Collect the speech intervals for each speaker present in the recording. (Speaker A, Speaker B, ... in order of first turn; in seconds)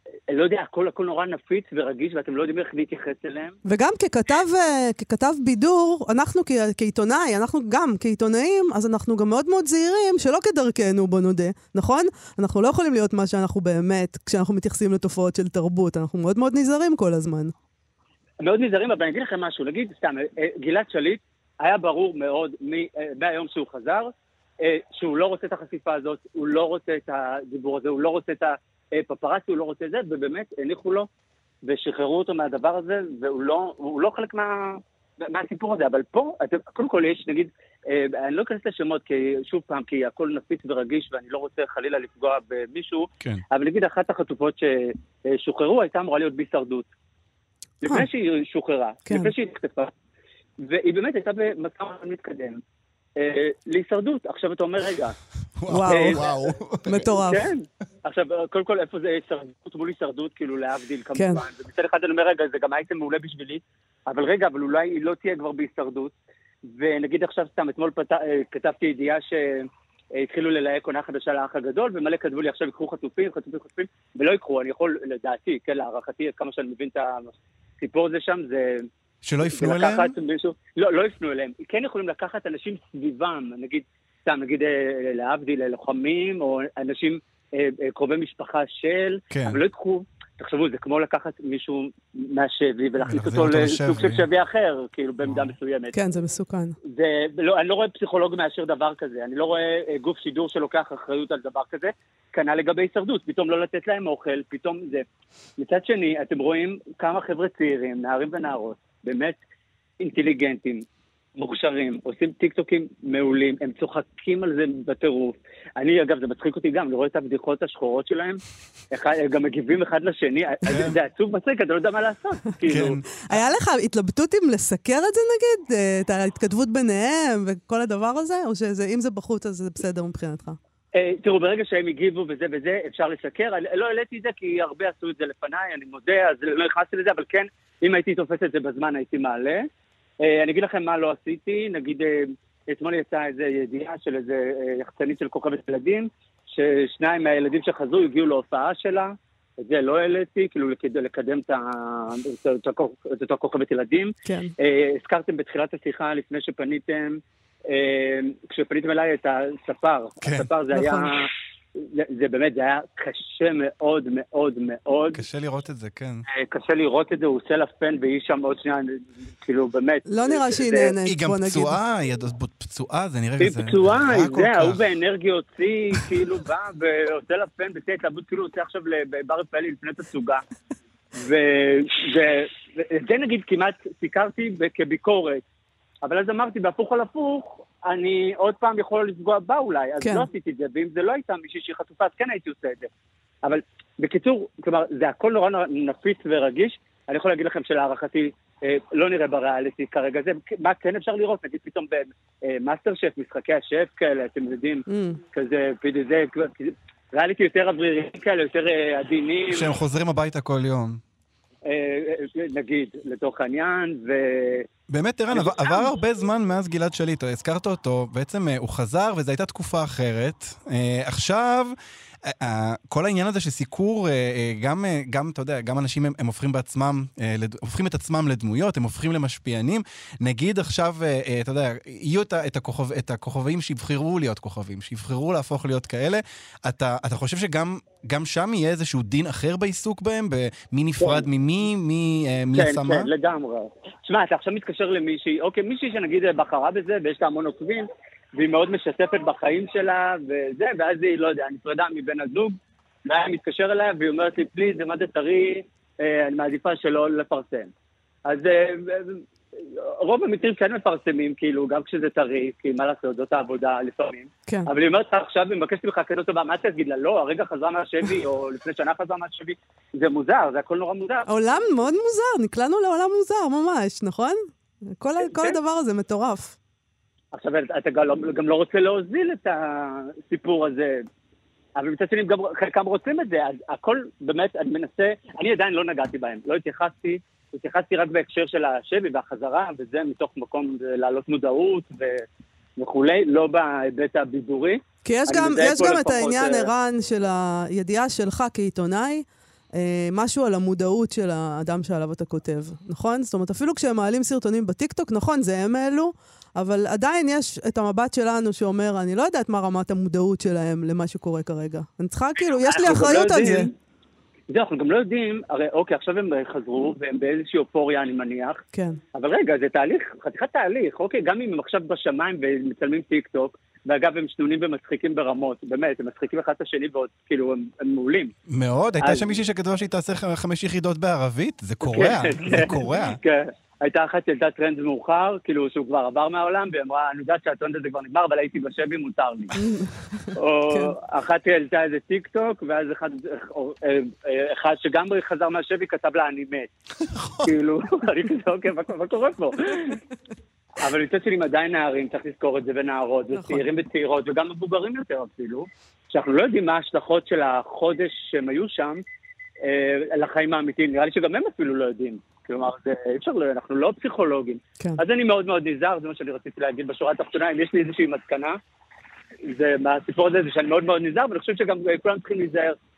Speaker A: 0.3-3.6, 18.4-31.1, 31.6-46.9, 47.8-49.9, 50.6-52.6, 53.2-55.2, 55.9-56.3, 57.1-78.9, 79.4-96.0, 96.9-105.0, 105.6-109.4, 110.0-123.0, 130.9-139.7, 140.2-165.2, 166.3-171.0, 173.4-180.4, 181.2-185.4, 186.0-192.9, 193.4-209.7, 211.6-214.7, 215.3-215.9, 241.0-241.3, 242.5-257.7, 258.3-271.3, 275.2-275.6, 277.3-281.0, 281.8-292.3, 292.8-296.7, 312.6-313.7, 314.5-318.6, 319.1-328.3, 329.0-329.4, 331.8-339.5, 340.3-346.7, 347.4-350.0, 350.8-359.0, 359.6-368.6, 369.4-372.8
Speaker B: 3.6-17.5, 49.1-49.3, 55.7-57.5, 61.2-61.4, 95.9-96.8, 123.3-130.6, 154.3-154.5, 160.7-161.1, 170.1-171.8, 190.0-190.3, 204.9-205.2, 271.3-274.4, 274.9-276.6, 295.1-313.7, 318.7-319.0, 339.6-340.9, 353.3-353.6
Speaker C: 55.6-57.0, 79.2-80.1, 89.3-89.6, 93.0-94.2, 95.2-95.5, 120.7-121.0, 122.7-123.4, 160.2-160.5, 165.1-166.2, 171.0-174.8, 209.5-211.0, 214.9-221.7, 222.3-243.1, 328.5-333.2, 347.1-347.5